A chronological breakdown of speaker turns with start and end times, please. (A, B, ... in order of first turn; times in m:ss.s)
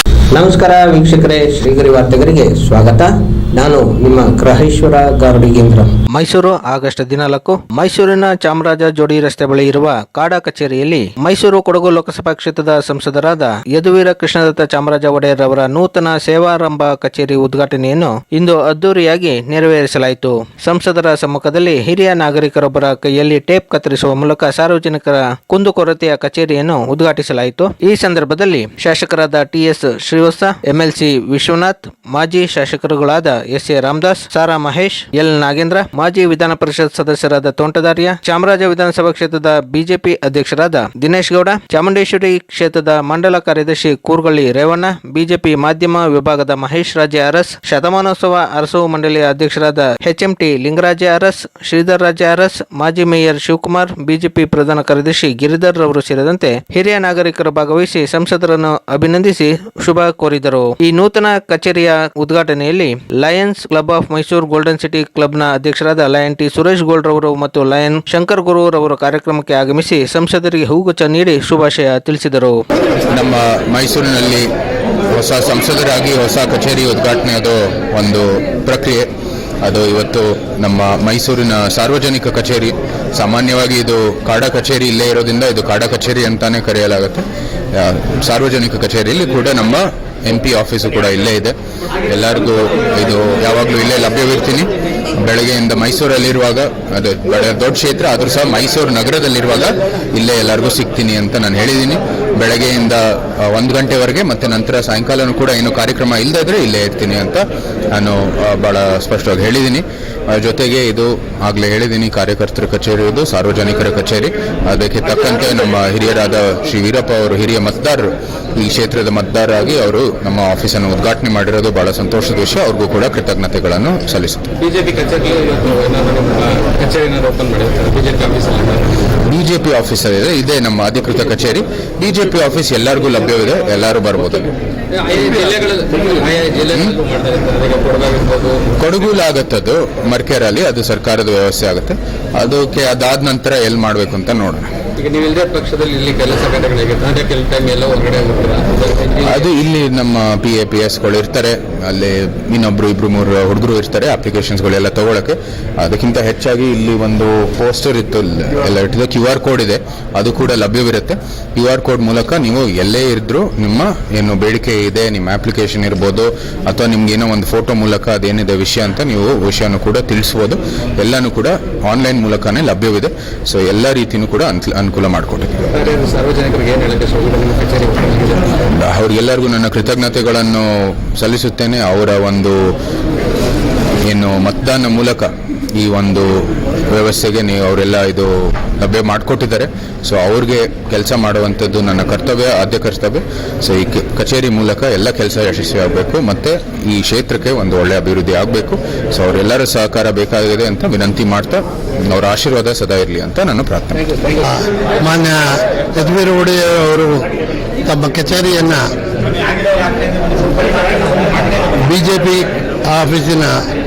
0:00.4-0:03.0 A
0:03.6-0:05.9 A
0:06.1-1:12.6 B
1:13.1-1:14.4 C
1:15.1-1:19.1 C
1:19.6-1:27.2 C
1:27.7-1:31.5 C
1:32.1-1:47.4 C
1:47.9-2:04.4 C
2:04.6-2:08.8 D
2:09.2-2:14.5 C
2:15.0-2:18.7 D
2:16.7-2:17.0 C
2:18.8-2:24.6 C
2:25.0-2:29.4 D
2:29.2-2:55.5 C
2:55.8-2:58.6 D
2:58.8-3:02.6 C
3:04.1-3:24.0 C
3:25.0-3:25.4 E
3:26.0-3:27.1 E
3:27.9-3:28.8 E
3:31.9-3:33.5 E